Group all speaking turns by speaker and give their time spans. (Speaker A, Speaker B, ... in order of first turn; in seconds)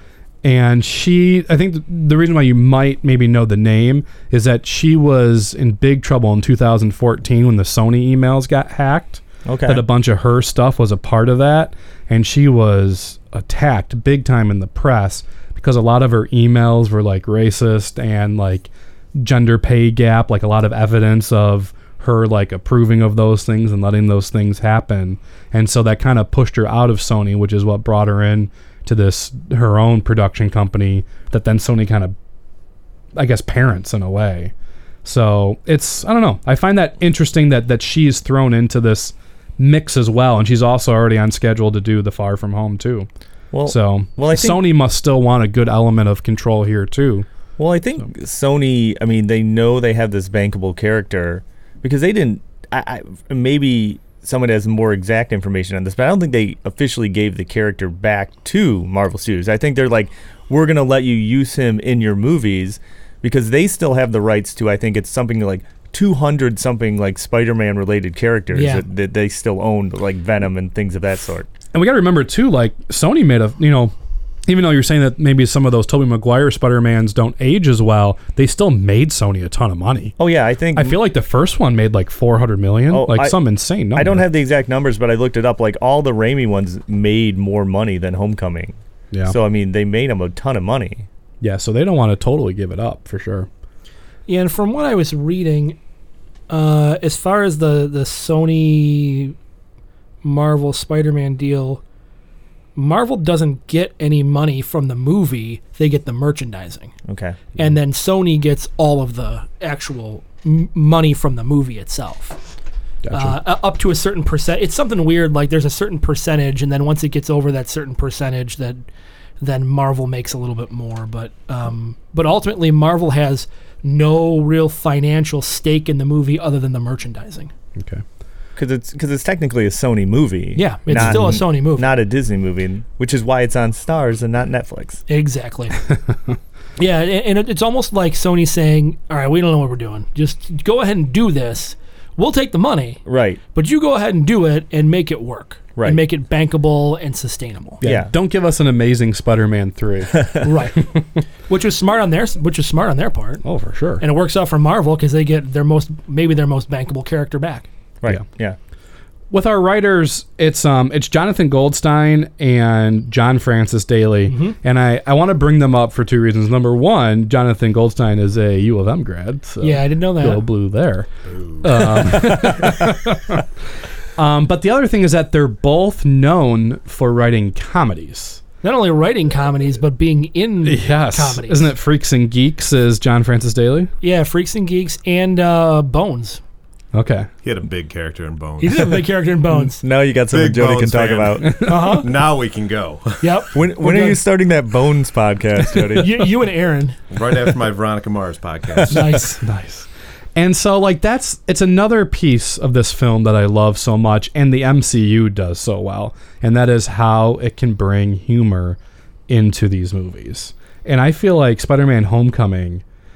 Speaker A: 0.4-32.1, 33.1-34.5, 35.0-43.1, 43.6-47.3, 71.7-73.9, 74.5-80.1, 80.7-84.2, 91.4-93.5, 113.0-113.4, 127.8-128.0, 130.9-131.3, 135.8-136.4, 147.8-150.3, 153.4-154.0, 159.3-171.1, 171.6-173.4, 174.2-178.4, 180.6-183.9, 186.9-187.3, 199.4-208.8, 209.3-212.8
Speaker B: 9.4-9.8, 43.5-44.6, 47.6-71.5, 80.2-81.0, 82.9-83.4, 83.9-91.1, 107.1-107.4, 128.6-135.0, 143.1-143.4, 145.8-146.0, 147.8-148.1, 158.0-158.6, 189.8-191.5, 193.5-196.1
Speaker C: 68.5-68.8, 94.3-95.8, 96.5-99.3, 100.2-101.8, 102.8-106.9, 107.6-112.4, 113.1-118.8, 119.4-127.5, 130.6-131.9, 135.1-135.8, 136.8-143.0, 143.5-147.8, 150.4-150.8, 151.5-153.4, 154.0-157.7, 164.3-164.5, 169.6-170.5, 178.6-181.7, 184.0-186.4, 188.6-189.8, 191.7-192.1, 193.2-194.2, 196.0-197.0, 198.9-199.4
Speaker D: 171.3-172.3, 187.4-189.1, 190.3-193.4, 197.1-199.0